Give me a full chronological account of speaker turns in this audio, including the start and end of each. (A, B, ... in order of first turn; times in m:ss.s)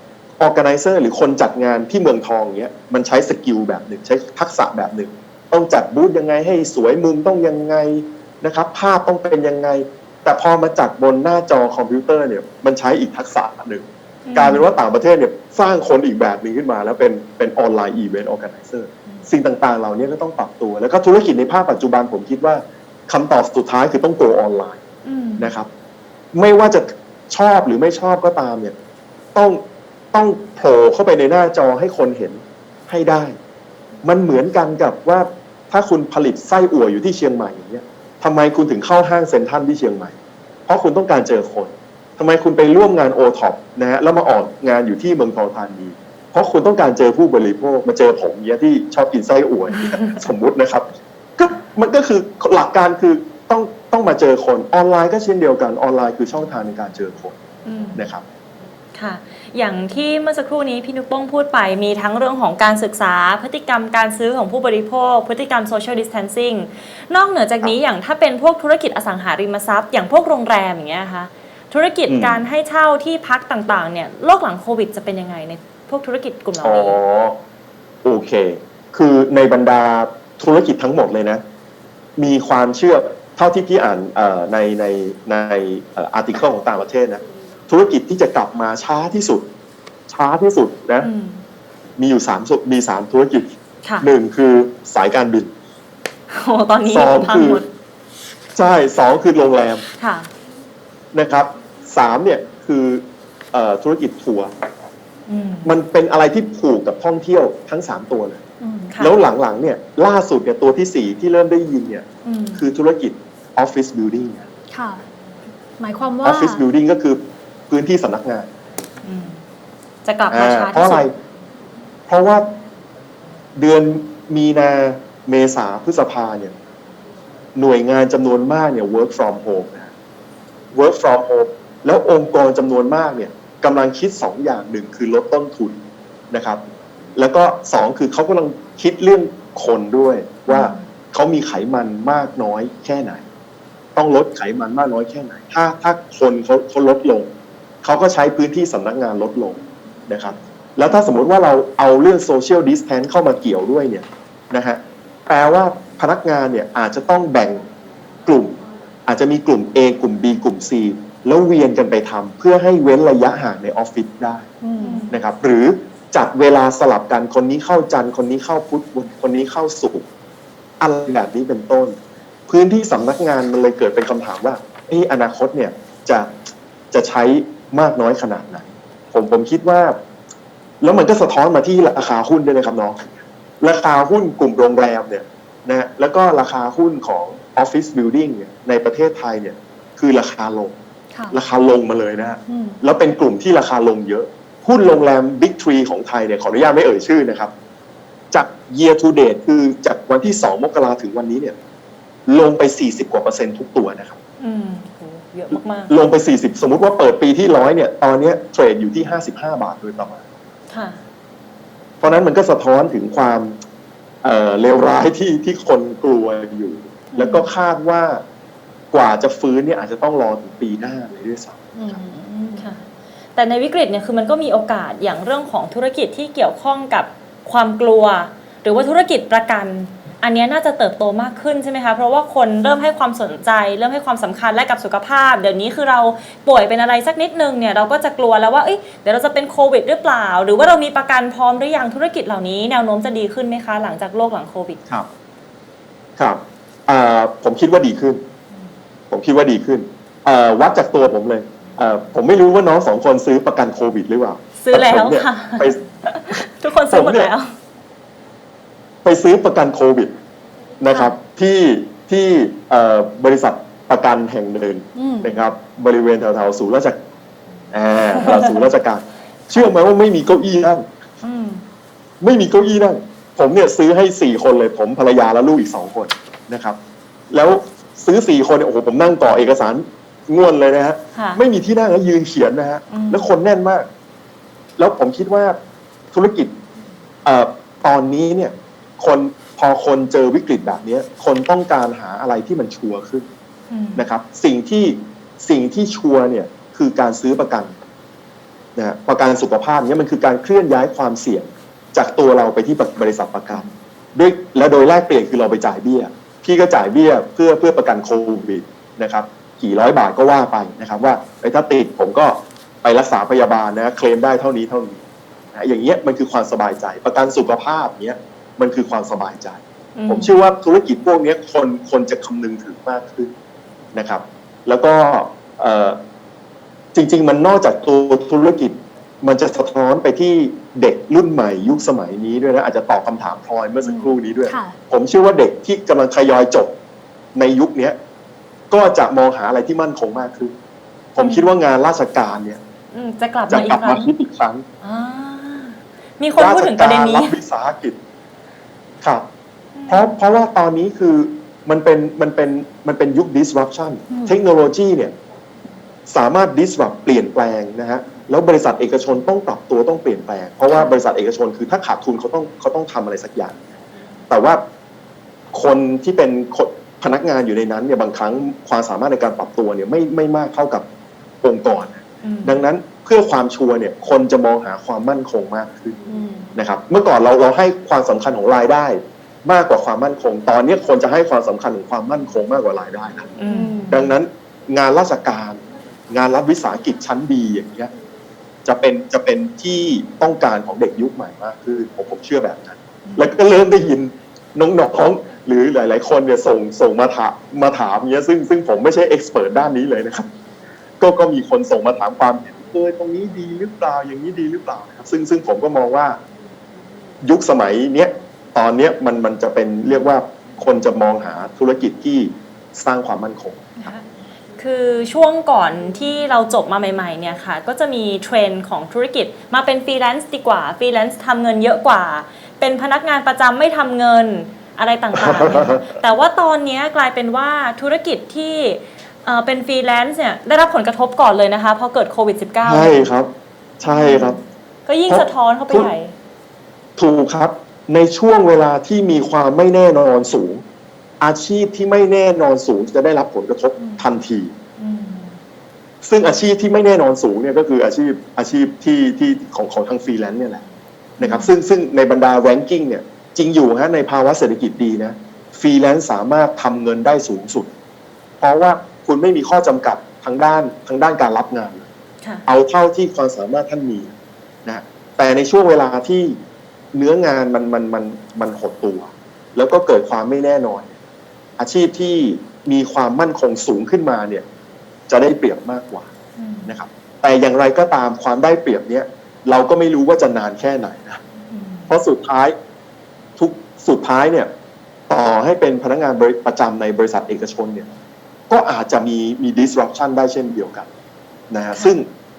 0:00.4-0:24.8 A
0:14.3-0:14.7 B
0:25.0-0:25.5 B
0:25.4-0:25.7 A
0:26.3-0:28.7 A
0:29.3-0:29.6 A
0:30.1-0:33.3 A
0:34.0-0:40.1 A
0:40.7-0:57.4 A
0:49.8-0:50.2 B
0:57.6-0:58.0 B
0:57.9-0:58.2 A
0:58.9-1:17.0 B
1:12.1-1:12.4 A
1:16.6-1:17.4 A
1:18.0-1:21.4 A
1:22.2-1:29.5 A
1:30.1-1:31.1 A
1:31.0-1:31.4 B
1:32.0-1:33.5 A
1:34.0-1:35.5 A
1:36.3-1:37.7 B
1:36.8-1:37.6 A
1:38.6-1:39.8 A
1:40.0-1:40.3 B
1:41.1-1:44.5 A
1:45.3-1:45.7 B
1:45.6-1:48.4 A
1:48.6-1:48.9 C
1:48.9-1:49.2 B
1:49.0-1:52.0 A
1:52.2-1:52.6 B
1:52.6-1:54.4 A
1:54.7-1:55.0 C
1:55.8-1:56.6 C
1:56.2-1:58.5 A
1:59.0-1:59.4 B
2:00.0-2:01.1 B
2:00.3-2:01.1 A
2:02.1-2:02.4 A
2:03.6-2:06.5 A
2:07.5-2:09.9 A
2:10.7-2:15.8 A
2:16.3-2:16.6 A
2:17.2-2:23.2 A
2:20.5-2:20.9 B
2:24.0-2:27.3 A
2:27.8-2:37.6 A
2:38.2-2:44.4 A
2:44.6-2:45.0 C
2:44.8-2:45.2 B
2:45.1-2:50.0 A
2:50.8-2:52.0 A
2:52.5-2:56.4 A
2:56.9-3:00.0 A
3:00.8-3:10.8 A
3:11.1-3:11.4 C
3:11.3-3:17.5 A
3:12.5-3:12.8 C
3:18.3-3:21.5 A
3:22.3-3:24.2 A
3:24.4-3:25.9 B
3:25.5-3:30.2 A
3:30.7-3:31.0 B
3:32.0-3:33.6 A
3:34.2-3:38.2 A
3:38.9-3:42.0 A
3:41.7-3:42.6 C
3:42.4-3:42.8 B
3:43.3-4:04.8 B
4:06.2-4:08.2 A
4:09.1-4:15.8 A
4:14.6-4:17.5 B
4:16.9-4:17.3 A
4:19.0-4:20.1 A
4:20.8-4:27.0 A
4:20.9-4:21.1 B
4:25.0-4:25.4 C
4:27.7-4:30.8 A
4:31.2-4:31.6 B
4:32.2-4:36.8 A
4:37.3-4:43.8 A
4:41.1-4:41.4 B
4:42.9-4:43.3 B
4:44.8-4:45.6 A
4:46.1-4:46.5 A
4:47.2-4:53.3 A
4:53.7-4:54.0 B
4:54.0-4:57.7 A
4:58.8-5:03.6 A
5:04.1-5:15.0 A
5:15.5-5:23.3 A
5:20.0-5:20.3 B
5:23.9-5:26.0 A
5:26.9-5:36.7 A
5:33.8-5:34.7 C
5:37.3-5:38.0 A
5:38.7-5:40.5 A
5:41.1-5:42.6 A
5:41.2-5:41.5 B
5:42.9-5:44.1 B
5:43.5-5:44.6 A
5:44.8-5:47.3 B
5:46.3-5:48.0 A
5:49.0-5:49.3 A
5:49.7-5:50.2 B
5:49.9-5:55.1 A
5:54.1-5:54.4 C
5:56.1-6:03.6 A
6:04.3-6:04.6 A
6:05.5-6:10.8 A
6:11.4-6:16.0 A
6:12.2-6:12.6 B
6:16.1-6:16.5 C
6:16.6-6:23.3 A
6:23.4-6:24.0 B
6:23.5-6:24.1 C
6:23.9-6:27.9 A
6:28.6-6:40.3 A
6:33.0-6:33.3 B
6:41.0-6:46.2 A
6:47.2-6:53.9 A
6:53.8-6:54.0 B
6:54.6-7:13.1 B
7:05.1-7:06.0 A
7:12.6-7:13.3 A
7:13.8-7:14.4 A
7:13.8-7:16.1 B
7:15.1-7:15.9 A
7:17.0-7:20.6 A
7:21.2-7:24.5 A
7:24.8-7:25.4 B
7:26.0-7:30.6 A
7:31.2-7:31.5 B
7:31.2-7:37.7 A
7:38.4-7:41.8 A
7:42.5-7:44.1 A
7:44.6-7:46.4 A
7:46.9-7:50.9 A
7:51.6-7:54.4 A
7:55.1-7:56.1 A
7:56.4-7:56.7 B
7:56.6-8:01.2 A
8:01.5-8:01.9 B
8:01.9-8:02.5 A
8:03.4-8:04.5 A
8:05.1-8:07.9 A
8:08.5-8:10.9 A
8:11.5-8:12.1 A